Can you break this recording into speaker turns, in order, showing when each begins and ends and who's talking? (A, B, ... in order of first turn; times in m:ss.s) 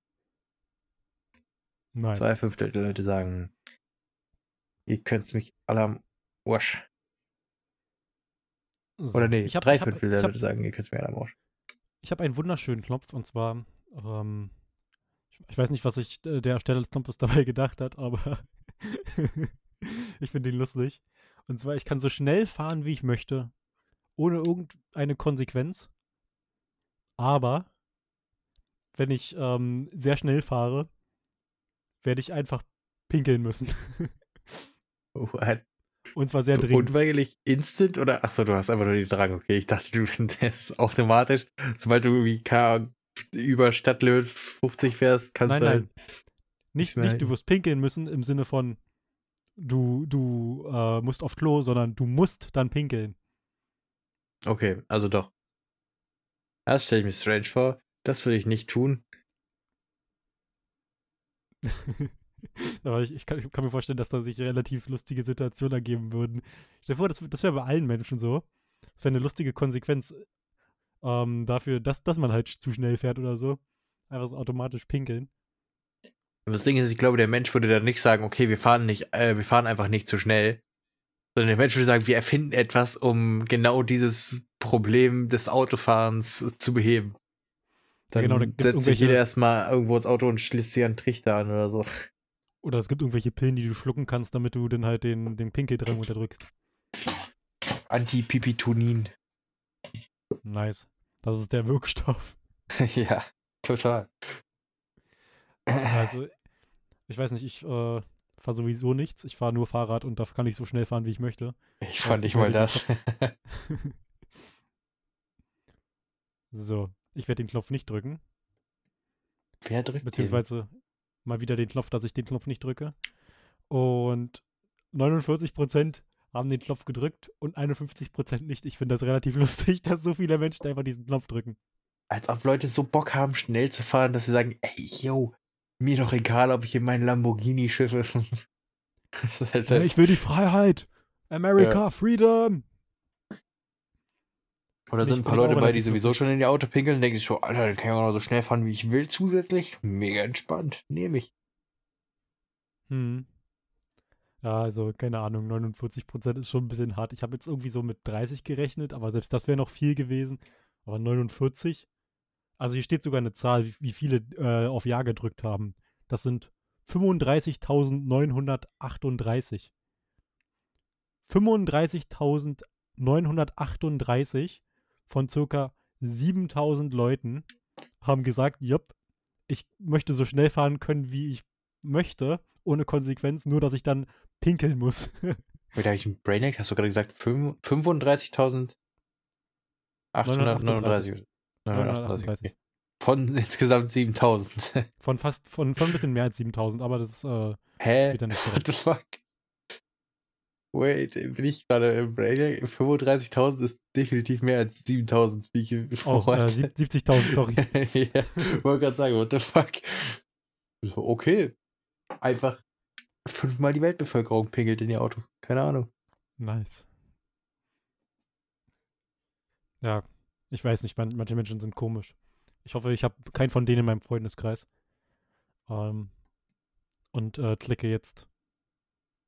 0:02.0-0:02.3 A
0:02.2-0:03.5 B
0:04.9-0:06.8 B
0:09.0-0:10.3 A
0:09.1-0:11.3 B
0:12.0-0:14.5 A
0:15.5-0:23.5 A
0:24.2-0:25.9 A
0:27.2-0:27.7 A
0:29.0-0:30.9 A
0:32.0-0:34.6 A
0:35.2-0:35.6 B
0:36.1-0:36.9 A
0:36.5-0:45.9 B
0:45.5-0:45.9 A
0:46.7-0:48.8 A
0:46.8-0:47.3 B
0:49.6-0:53.2 A
0:54.5-0:55.3 B
0:56.7-0:59.0 B
1:01.7-1:10.2 A
1:11.0-1:15.3 A
1:16.5-1:20.6 B
1:21.4-1:27.2 B
1:28.1-1:29.2 A
1:28.1-1:31.9 B
1:32.6-1:36.5 A
1:37.9-1:39.1 B
1:40.4-1:42.4 A
1:42.8-1:44.4 B
1:45.7-1:46.1 B
1:45.9-1:46.3 A
1:47.1-1:52.8 A
1:51.8-1:53.3 B
1:53.7-1:53.9 A
1:56.5-1:58.2 A
1:59.6-2:00.4 B
2:00.0-2:00.7 A
2:01.2-2:03.0 A
2:03.7-2:11.6 A
2:12.1-2:18.4 B
2:19.2-2:20.0 B
2:19.7-2:22.6 A
2:24.9-2:31.3 B
2:25.0-2:26.2 A
2:32.9-2:33.3 A
2:34.4-2:41.9 A
2:42.6-2:49.7 A
2:51.3-2:57.5 A
2:58.0-2:58.9 A
2:59.5-3:05.4 A
3:05.8-3:08.8 B
3:10.1-3:14.9 B
3:10.2-3:11.1 A
3:11.7-3:12.5 A
3:15.0-3:18.7 A
3:17.8-3:19.2 B
3:20.7-3:26.7 B
3:26.0-3:27.6 A
3:27.2-3:30.2 B
3:30.8-3:31.5 B
3:32.2-3:32.6 B
3:33.2-3:35.9 B
3:36.4-3:36.9 A
3:39.8-3:44.7 A
3:45.7-3:46.1 A
3:47.1-3:48.3 A